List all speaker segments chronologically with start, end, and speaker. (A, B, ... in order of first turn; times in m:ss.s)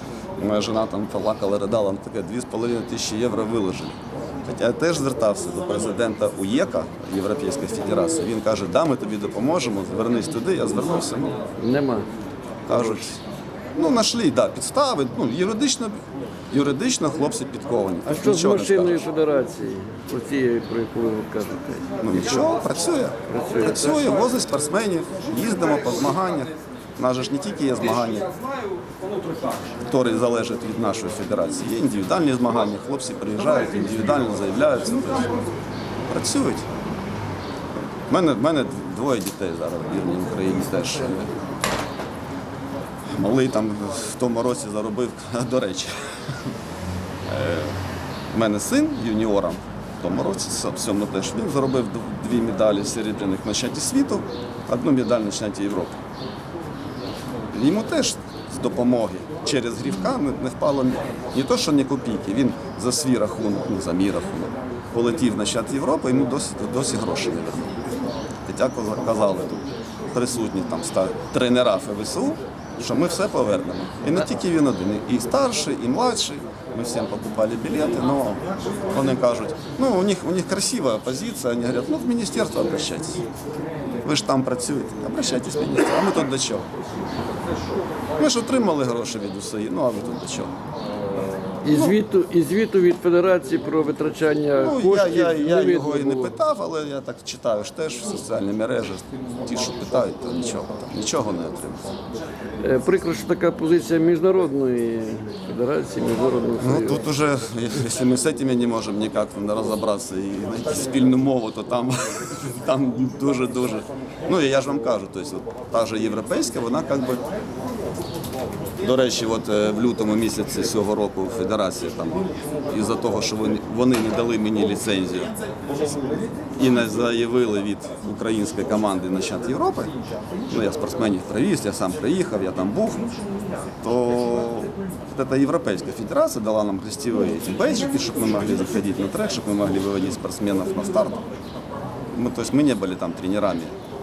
0:00.4-0:11.4 A
0:11.7-0:12.1 B
0:12.7-0:13.2 A
0:13.8-0:19.1 A
0:18.1-0:21.9 B
0:22.0-0:28.3 A
0:23.3-0:24.0 B
0:29.8-0:35.4 A
0:36.1-0:36.7 A
0:38.1-0:41.4 A
0:43.2-0:45.9 A
0:47.2-0:47.8 A
0:48.3-0:56.0 A
0:57.5-1:07.7 A
1:08.5-1:23.3 A
1:24.0-1:26.7 A
1:28.2-1:30.5 A
1:31.6-1:36.4 B
1:31.7-1:32.0 A
1:34.6-1:41.9 A
1:42.6-1:46.9 B
1:46.6-1:57.3 A
1:58.8-2:05.4 A
2:06.6-2:09.9 A
2:10.5-2:13.1 A
2:13.8-2:21.3 A
2:22.1-2:23.8 A